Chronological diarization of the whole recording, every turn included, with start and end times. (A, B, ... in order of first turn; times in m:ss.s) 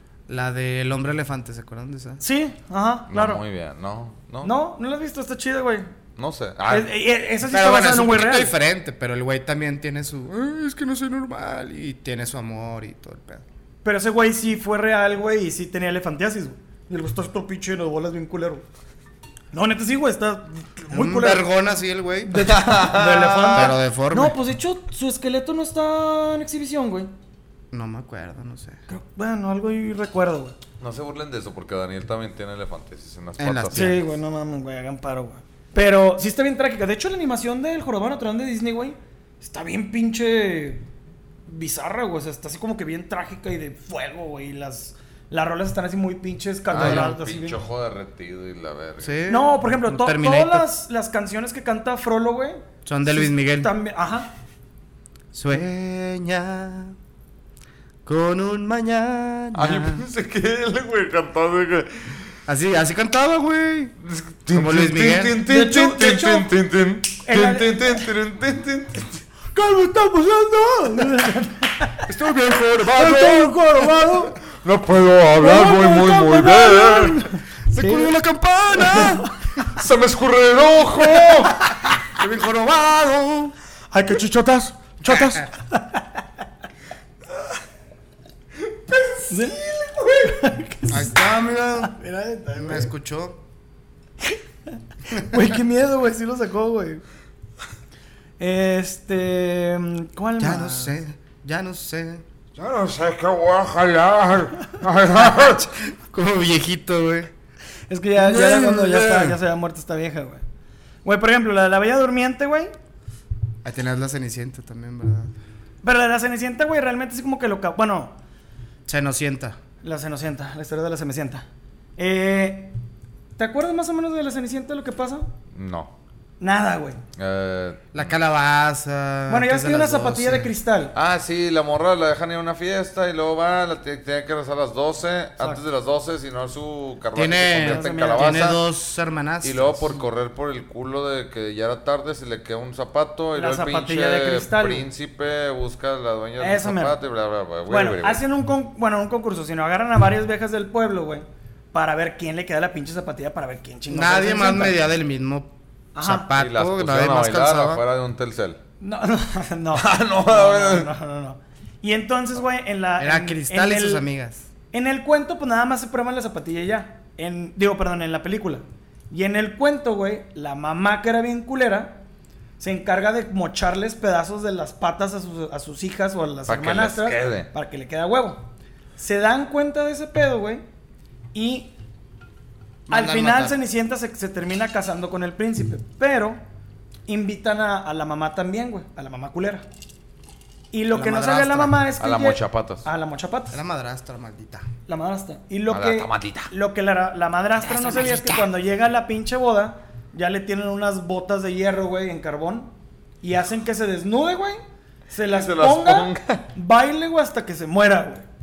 0:00.3-0:02.2 A
0:02.2-0:03.4 B
0:03.1-0:04.5 C
0:04.4-0:05.9 B
0:06.2-0:06.9 C
0:06.7-0:08.5 B
0:07.5-0:13.4 A
0:13.8-0:18.6 B
0:19.5-0:21.4 B
0:20.9-0:22.4 A
0:22.2-0:27.1 B
0:22.4-0:23.7 C
0:23.5-0:24.4 A
0:27.7-0:28.8 A
0:28.9-0:30.6 B
0:30.8-0:34.0 C
0:33.4-0:34.0 A
0:33.7-0:40.9 B
0:41.5-0:47.6 B
0:46.7-0:49.2 C
0:46.7-0:47.1 A
0:49.0-0:50.7 A
0:49.3-0:54.3 B
0:52.8-0:53.7 A
0:55.3-0:57.0 A
0:58.0-1:00.0 A
0:59.5-1:02.2 C
1:02.5-1:03.9 A
1:04.0-1:09.2 C
1:04.5-1:05.4 A
1:05.4-1:06.5 B
1:07.2-1:08.1 B
1:09.5-1:12.1 B
1:12.1-1:13.6 C
1:12.9-1:14.4 B
1:14.4-1:17.2 C
1:15.4-1:18.1 B
1:17.7-1:19.3 A
1:18.7-1:19.7 B
1:19.7-1:21.6 C
1:21.2-1:21.9 B
1:22.0-1:23.5 A
1:23.9-1:26.2 B
1:25.1-1:25.4 A
1:29.2-1:32.9 B
1:30.9-1:32.0 A
1:32.6-1:33.4 A
1:35.1-1:37.0 B
1:38.4-1:41.0 B
1:40.4-1:42.2 A
1:42.6-1:45.6 C
1:44.4-1:47.3 A
1:47.9-1:50.4 B
1:48.2-1:49.4 A
1:51.0-1:52.7 B
1:53.6-1:55.3 A
1:55.8-1:58.2 B
1:58.9-1:59.6 A
1:59.8-2:01.4 B
2:02.0-2:02.7 B
2:03.4-2:05.3 B
2:05.5-2:05.9 C
2:06.4-2:07.0 B
2:07.2-2:08.1 C
2:07.9-2:10.5 A
2:09.3-2:10.9 B
2:10.9-2:18.6 C
2:17.1-2:19.9 A
2:17.6-2:18.4 B
2:19.4-2:28.2 C
2:23.4-2:24.9 B
2:26.4-2:27.0 B
2:27.7-2:34.8 B
2:33.9-2:37.8 A
2:35.9-2:36.3 B
2:36.3-2:38.6 C
2:38.8-2:44.0 B
2:39.7-2:40.9 C
2:43.0-2:44.4 A
2:44.7-2:52.0 B
2:52.6-3:00.6 B
2:56.5-2:57.5 C
3:01.3-3:01.7 B
3:02.9-3:03.6 A
3:02.9-3:06.4 B
3:07.1-3:09.6 B
3:10.7-3:13.6 B
3:10.9-3:11.9 A
3:12.0-3:12.8 C
3:13.5-3:14.6 A
3:14.9-3:22.7 B
3:15.7-3:16.5 C
3:17.7-3:18.4 C
3:23.2-3:28.2 B
3:25.3-3:26.4 C